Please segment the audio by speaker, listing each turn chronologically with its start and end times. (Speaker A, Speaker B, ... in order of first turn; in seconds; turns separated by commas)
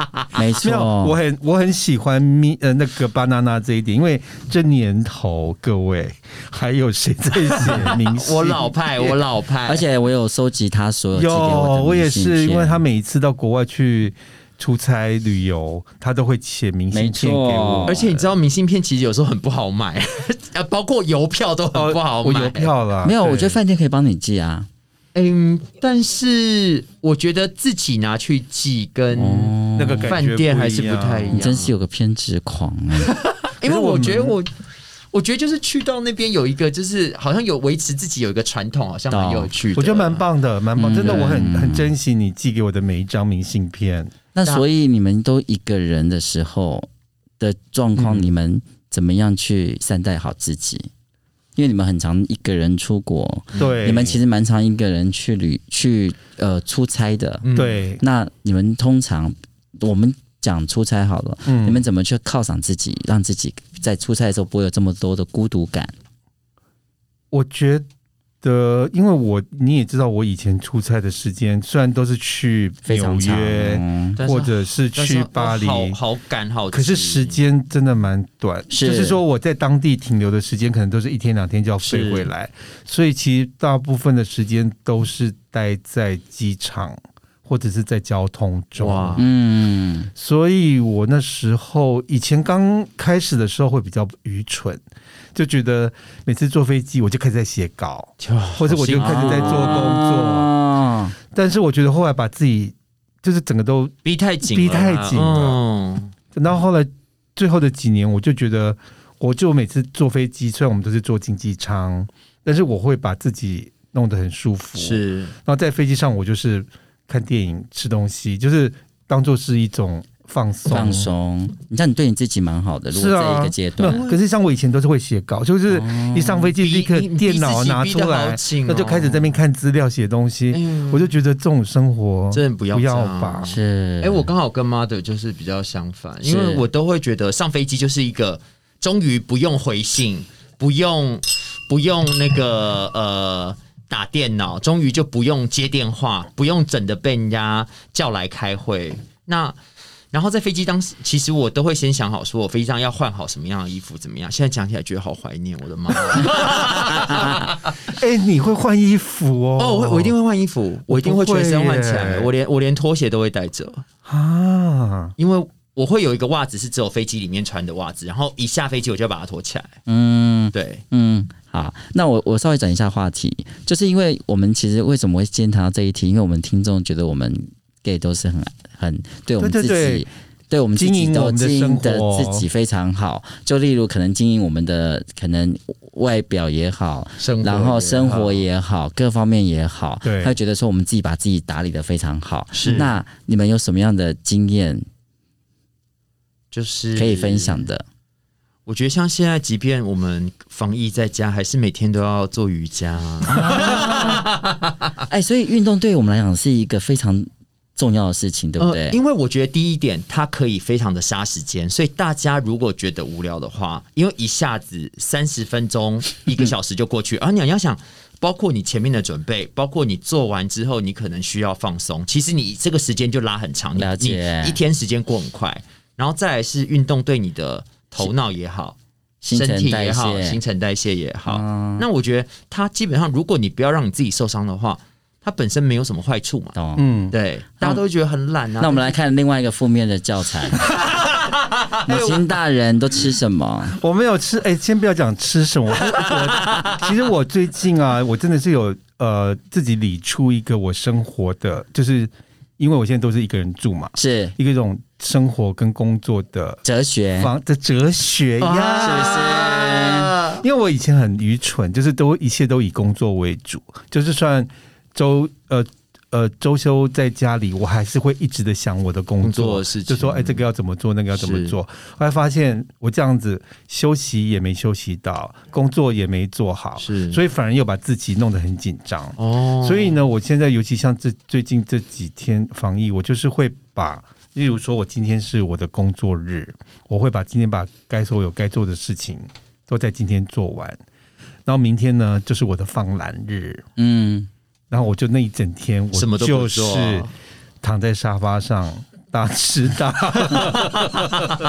Speaker A: 0.3-1.2, Speaker B: 0.6-9.2, Speaker C: 7.6-9.8, Speaker A: 9.7-12.8, Speaker B: 11.1-18.3, Speaker A: 16.9-18.0, Speaker C: 17.9-22.7, Speaker B: 21.7-23.6, Speaker A: 23.0-24.7, Speaker C: 25.1-31.7, Speaker A: 29.1-30.1, Speaker B: 29.8-31.5, Speaker A: 31.3-33.1, Speaker C: 33.0-34.5, Speaker B: 33.6-34.4, Speaker C: 35.1-40.2, Speaker A: 39.1-39.5, Speaker B: 39.8-44.1, Speaker A: 40.8-41.9, Speaker A: 44.4-46.9, Speaker A: 47.4-50.9, Speaker B: 48.0-48.3, Speaker A: 51.6-57.5, Speaker B: 53.6-54.2, Speaker C: 57.4-57.8, Speaker B: 57.5-58.0, Speaker A: 58.0-65.9, Speaker B: 61.5-61.9, Speaker B: 67.3-67.8, Speaker B: 68.4-76.0, Speaker A: 72.8-74.2, Speaker C: 74.2-77.4, Speaker B: 76.7-89.2, Speaker A: 78.7-79.2, Speaker C: 81.8-82.3, Speaker C: 88.8-89.3, Speaker A: 89.2-90.1, Speaker B: 90.2-94.8, Speaker B: 95.3-100.5, Speaker C: 98.2-99.9, Speaker A: 98.9-101.2, Speaker B: 101.3-105.6, Speaker C: 104.0-106.1, Speaker B: 106.3-121.1, Speaker C: 114.8-115.3, Speaker A: 120.7-124.0, Speaker B: 122.9-133.5, Speaker C: 123.8-124.2, Speaker A: 125.7-126.5, Speaker C: 126.6-129.3, Speaker C: 130.5-131.1, Speaker C: 132.3-149.6, Speaker A: 133.5-134.3, Speaker A: 136.2-136.7, Speaker C: 150.1-157.8, Speaker B: 157.9-160.2, Speaker C: 159.6-163.8, Speaker B: 160.9-162.3, Speaker B: 164.1-165.1, Speaker C: 165.2-169.8, Speaker A: 169.9-194.9, Speaker C: 170.5-170.8, Speaker B: 179.4-180.1, Speaker B: 180.8-182.5, Speaker C: 187.2-188.4, Speaker B: 190.0-190.4, Speaker C: 192.5-192.9, Speaker C: 196.5-197.7, Speaker A: 197.0-197.8, Speaker C: 198.7-204.8, Speaker A: 203.3-204.2, Speaker A: 205.1-209.0, Speaker C: 208.6-228.8, Speaker A: 223.8-224.6, Speaker A: 229.2-230.4, Speaker C: 229.3-236.6, Speaker A: 231.3-231.8, Speaker A: 236.6-236.9, Speaker B: 236.8-237.2, Speaker C: 237.1-238.9, Speaker A: 238.6-240.7, Speaker C: 240.6-242.2, Speaker A: 241.8-243.8, Speaker B: 243.7-256.6, Speaker C: 246.0-246.8, Speaker A: 254.0-254.3, Speaker A: 256.6-257.3, Speaker B: 257.2-259.3, Speaker C: 258.4-260.4, Speaker A: 258.8-260.1, Speaker B: 260.4-290.8, Speaker C: 269.2-270.4, Speaker C: 271.1-271.5, Speaker C: 276.8-277.2, Speaker C: 279.2-280.0, Speaker B: 291.5-293.6, Speaker A: 293.8-294.3, Speaker B: 294.7-297.1, Speaker C: 295.9-297.1, Speaker B: 297.6-301.3, Speaker C: 300.4-301.2